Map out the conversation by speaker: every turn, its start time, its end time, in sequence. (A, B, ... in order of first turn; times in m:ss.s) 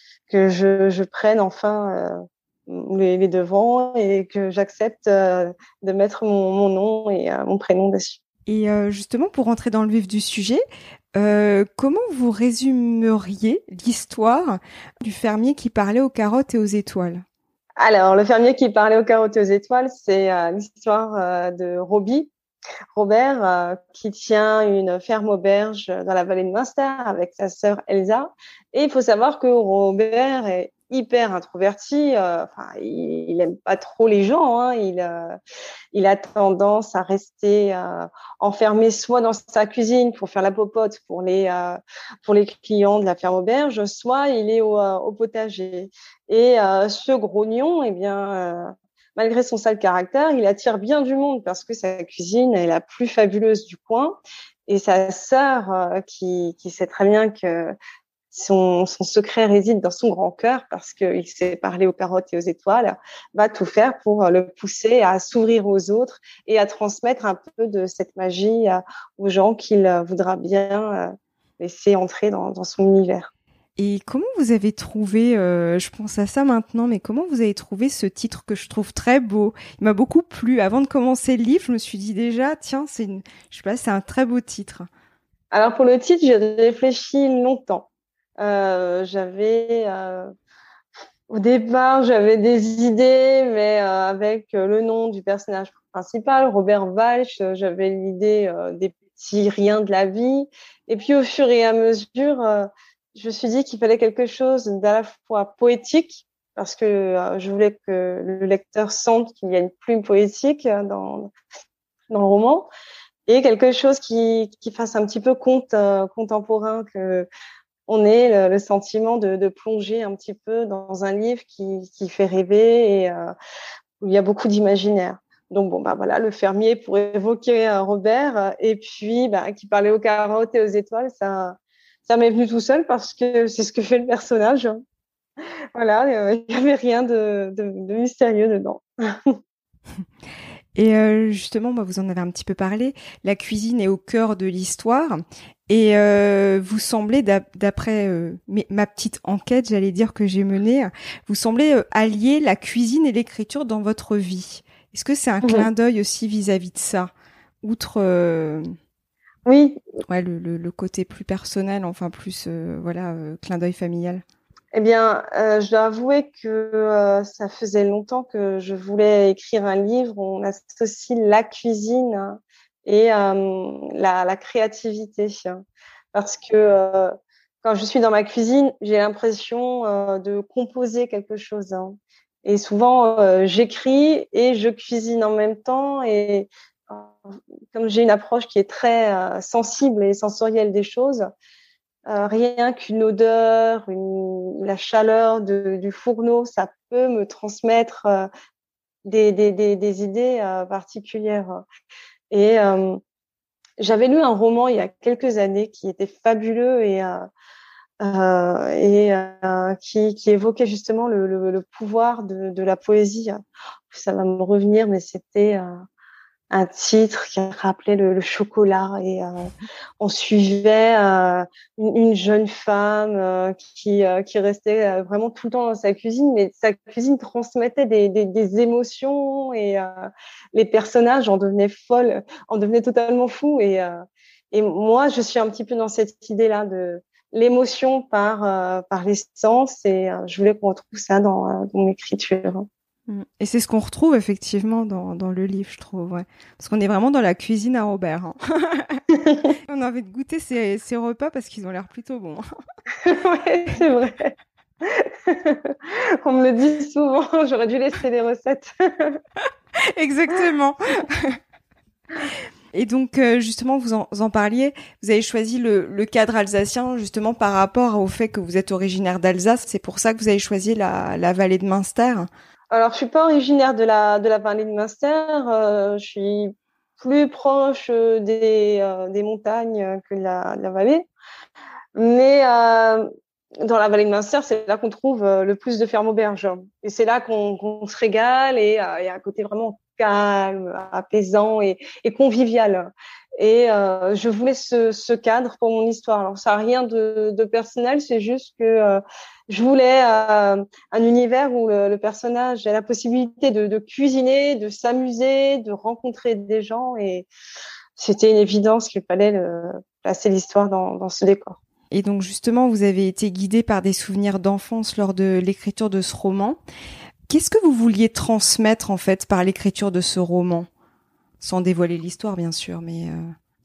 0:00.3-0:08.2 A
0:08.5-0:10.6 B
0:11.1-0:17.2 B
0:17.8-0:22.3 A
0:22.9-0:35.4 A
0:35.9-0:57.7 A
0:58.3-1:13.3 A
1:13.8-1:24.9 B
1:25.5-1:27.9 A
1:28.4-1:30.3 A
1:31.3-1:51.3 A
1:52.1-1:52.7 A
1:53.3-1:57.3 A
1:57.9-2:03.3 A
2:04.0-2:14.8 A
2:15.7-2:19.4 A
2:20.8-2:38.7 B
2:39.4-2:39.8 A
2:40.1-2:44.2 B
2:44.7-2:55.6 A
2:56.1-2:57.1 A
2:57.6-3:07.2 A
3:07.7-3:11.3 A
3:12.1-3:18.3 A
3:19.0-3:21.6 A
3:22.3-3:23.0 A
3:23.8-3:27.3 A
3:28.0-3:33.4 A
3:33.9-3:35.7 A
3:36.5-3:39.5 A
3:40.0-3:53.9 A
3:54.5-4:02.7 A
4:03.1-4:09.0 B
4:09.1-4:09.5 A
4:09.7-4:12.4 B
4:13.0-4:19.2 A
4:19.9-4:21.3 B
4:22.7-4:32.3 B
4:32.7-4:41.1 A
4:42.0-4:43.1 A
4:43.6-5:07.3 A
5:08.0-5:11.6 A
5:11.9-5:16.6 B
5:17.3-5:20.7 B
5:21.4-5:23.3 B